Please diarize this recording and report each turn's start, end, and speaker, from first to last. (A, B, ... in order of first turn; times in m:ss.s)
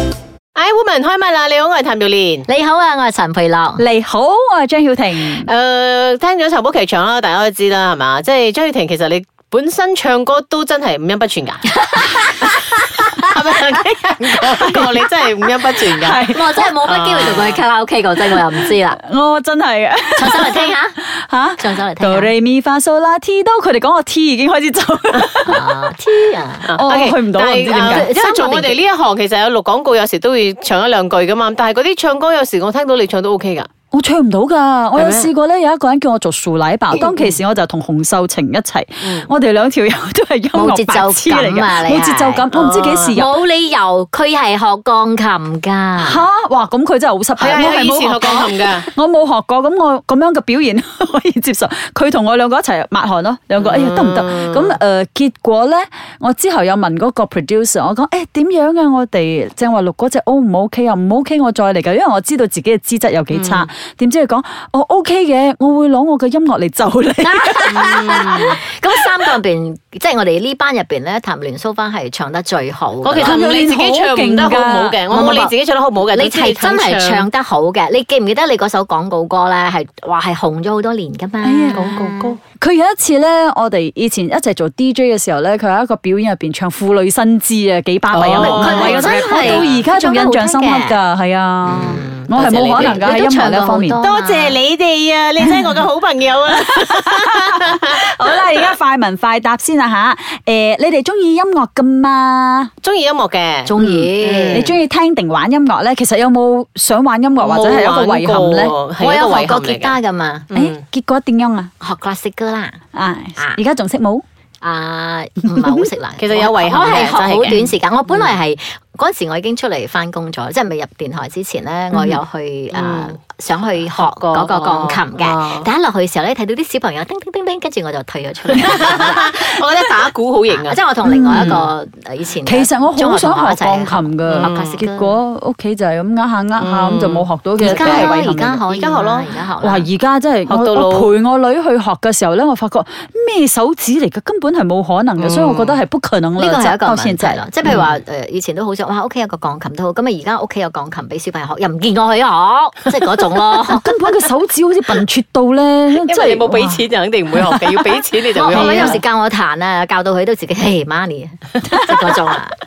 0:00.5-0:02.4 A
0:02.5-0:03.8 B
0:03.8-0:05.5 C
0:05.4-0:12.6 A
0:11.8-0:13.1 B
0:13.2-0:17.6 A
0:14.5-0:14.9 C
0:15.8-0:16.4 C
0:16.3-0:19.0 B
0:18.3-0:25.6 C
0:20.1-0:21.0 B
0:21.6-0:22.3 B
0:25.4-0:26.7 B
0:26.7-0:33.7 A
0:26.7-0:28.1 C
0:27.8-0:28.8 B
0:33.9-0:43.4 C
0:35.0-0:35.3 A
0:36.9-0:37.4 A
0:39.0-0:39.3 A
0:40.5-0:42.4 B
0:42.5-0:43.2 A
0:43.1-0:46.2 B
0:46.0-1:08.6 C
0:47.4-0:48.9 A
0:53.6-0:54.8 A
1:03.3-1:03.7 A
1:07.2-1:13.4 B
1:07.7-1:08.6 A
1:13.0-1:17.3 A
1:13.2-1:15.5 C
1:16.1-1:22.4 B
1:21.4-1:22.0 C
1:21.7-1:22.4 A
1:22.6-1:34.0 C
1:28.1-1:29.8 A
1:28.2-1:31.0 B
1:31.6-1:34.5 B
1:34.0-1:38.0 A
1:36.7-1:42.7 C
1:42.8-1:44.8 A
1:43.7-1:44.7 B
1:43.8-1:48.7 C
1:47.4-1:50.8 A
1:49.0-1:50.5 B
1:50.5-1:51.7 C
1:51.8-1:52.8 B
1:52.9-1:54.2 C
1:54.6-2:09.4 B
1:55.5-1:55.9 C
1:56.2-1:58.4 A
2:01.9-2:02.2 A
2:02.7-2:03.2 A
2:03.9-2:05.7 A
2:08.5-2:11.7 A
2:10.5-2:15.2 B
2:11.0-2:11.6 C
2:12.4-2:18.6 C
2:14.3-2:14.8 A
2:16.6-2:19.3 A
2:17.6-2:19.9 B
2:19.6-2:27.7 C
2:20.5-2:21.1 A
2:25.2-2:25.8 A
2:26.4-2:33.9 B
2:27.6-2:27.9 A
2:33.7-2:39.0 C
2:35.9-2:39.0 A
2:38.4-2:42.6 B
2:41.7-2:42.2 C